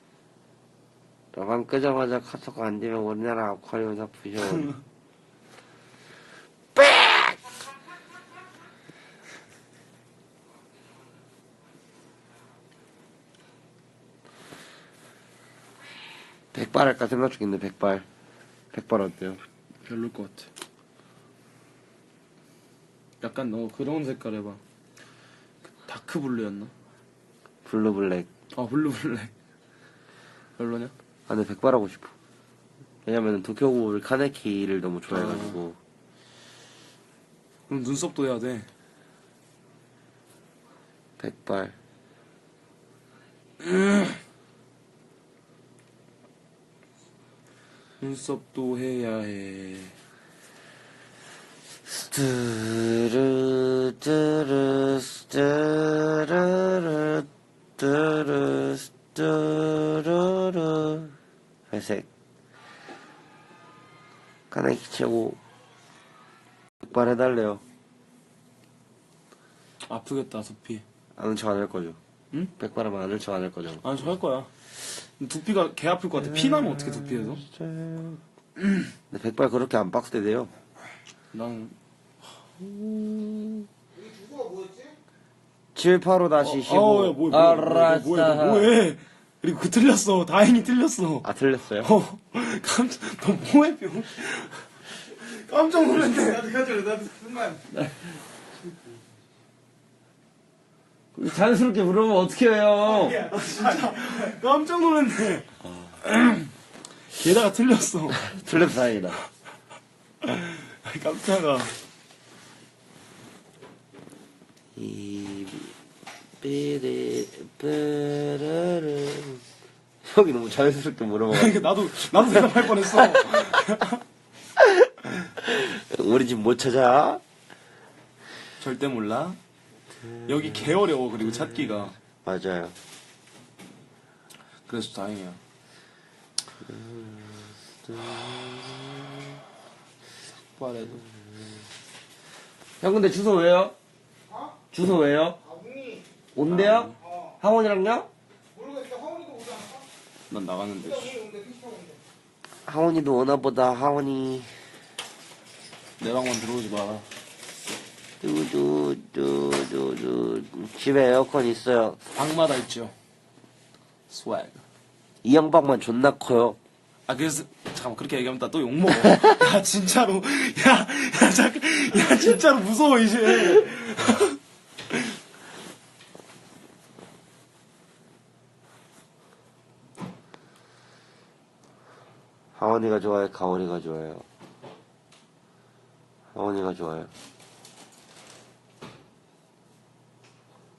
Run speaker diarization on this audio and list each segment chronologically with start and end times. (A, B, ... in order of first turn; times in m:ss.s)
0:01.3-0:04.7 A
0:06.7-0:07.5 A
0:16.5-0:18.0 A
0:18.7-0:19.4 A
0:19.8-0:20.5 B
0:23.2-0:24.6 B
0:25.8-0:26.7 B
0:27.6-0:28.3 A
0:28.5-0:29.3 B
0:30.6-0:30.9 B
0:31.3-0:32.1 A
0:33.0-0:35.8 A
0:35.1-0:35.6 B
0:37.7-0:38.7 B
0:41.2-0:41.8 A
0:43.6-0:44.2 B
0:48.0-0:49.9 B
0:51.8-1:01.1 A
1:01.7-1:02.1 A
1:04.5-1:05.4 A
1:06.8-1:07.6 A
1:09.9-1:10.8 B
1:11.2-1:12.0 A
1:12.6-1:13.8 A
1:13.8-1:17.4 B
1:16.2-1:18.2 A
1:18.6-1:18.9 B
1:19.1-1:20.5 A
1:21.3-1:21.8 B
1:22.6-1:23.7 A
1:23.9-1:24.9 C
1:25.7-1:28.7 A
1:26.4-1:31.3 B
1:31.2-1:31.9 A
1:31.8-1:37.5 B
1:41.1-1:43.2 A
1:43.0-1:45.5 B
1:46.0-1:46.5 B
1:47.1-1:48.3 B
1:48.2-1:49.2 A
1:50.2-1:51.7 B
1:54.7-1:55.7 A
1:56.4-1:59.4 A
2:00.0-2:03.4 A
2:01.3-2:04.0 B
2:04.6-2:07.2 A
2:08.6-2:09.4 B
2:10.0-2:10.8 A
2:10.3-2:11.9 B
2:11.5-2:12.8 A
2:14.7-2:15.4 B
2:16.6-2:19.4 A
2:20.6-2:21.0 B
2:22.8-2:23.7 A
2:24.3-2:24.6 C
2:24.7-2:25.4 A
2:25.4-2:26.1 C
2:26.4-2:28.1 A
2:26.4-2:27.0 B
2:27.0-2:27.4 C
2:28.5-2:29.9 C
2:30.3-2:31.2 B
2:30.8-2:32.0 C
2:32.6-2:34.5 A
2:36.0-2:37.1 B
2:38.2-2:42.0 A
2:42.1-2:42.9 B
2:44.1-2:44.6 B
2:45.2-2:46.6 A
2:47.1-2:54.4 B
3:02.6-3:04.2 A
3:06.3-3:07.1 A